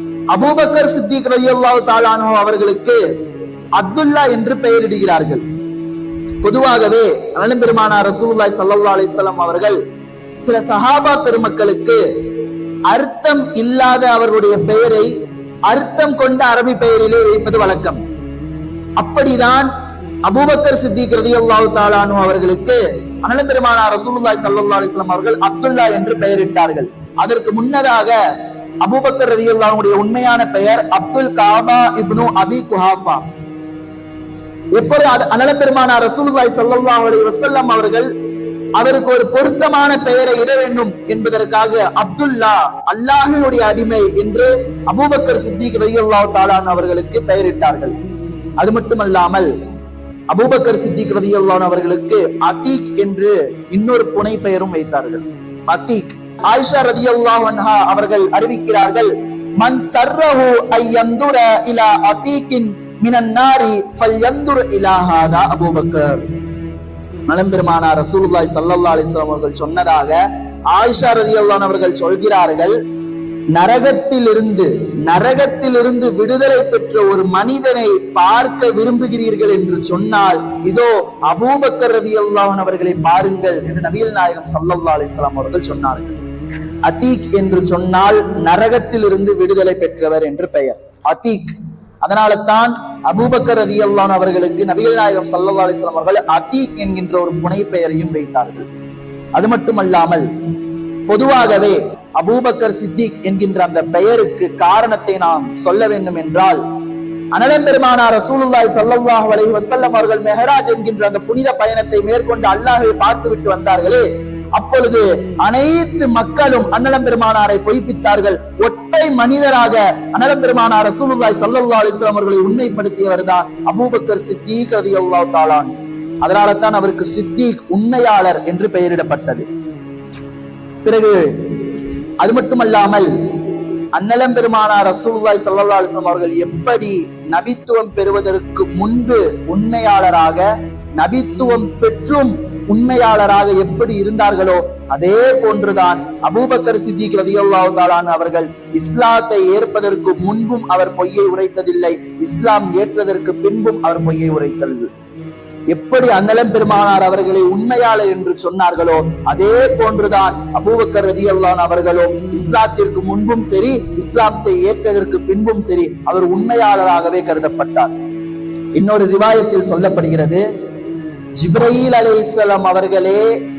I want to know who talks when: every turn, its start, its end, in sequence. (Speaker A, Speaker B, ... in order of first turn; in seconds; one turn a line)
Speaker A: 0.3-3.0
Speaker A: 3.8-5.4
Speaker A: 6.4-9.8
Speaker A: 10.4-12.0
Speaker A: 12.9-15.1
Speaker A: 15.7-18.0
Speaker A: 19.0-19.7
Speaker A: 20.2-28.2
Speaker A: 28.8-33.3
Speaker A: 34.7-38.1
Speaker A: 38.7-47.9
Speaker A: 48.6-49.5
Speaker A: 50.3-66.3
Speaker A: 67.3-72.8
Speaker A: 73.5-86.2
Speaker A: 86.8-98.7
Speaker A: 99.3-100.3
Speaker A: 101.1-106.6
Speaker A: 107.3-125.7
Speaker A: 126.2-129.4
Speaker A: 130.8-131.5
Speaker A: 132.2-133.1
Speaker A: 133.9-140.5
Speaker A: 141.0-154.9
Speaker A: 155.7-167.9
Speaker A: 168.8-170.4
Speaker A: 171.4-173.3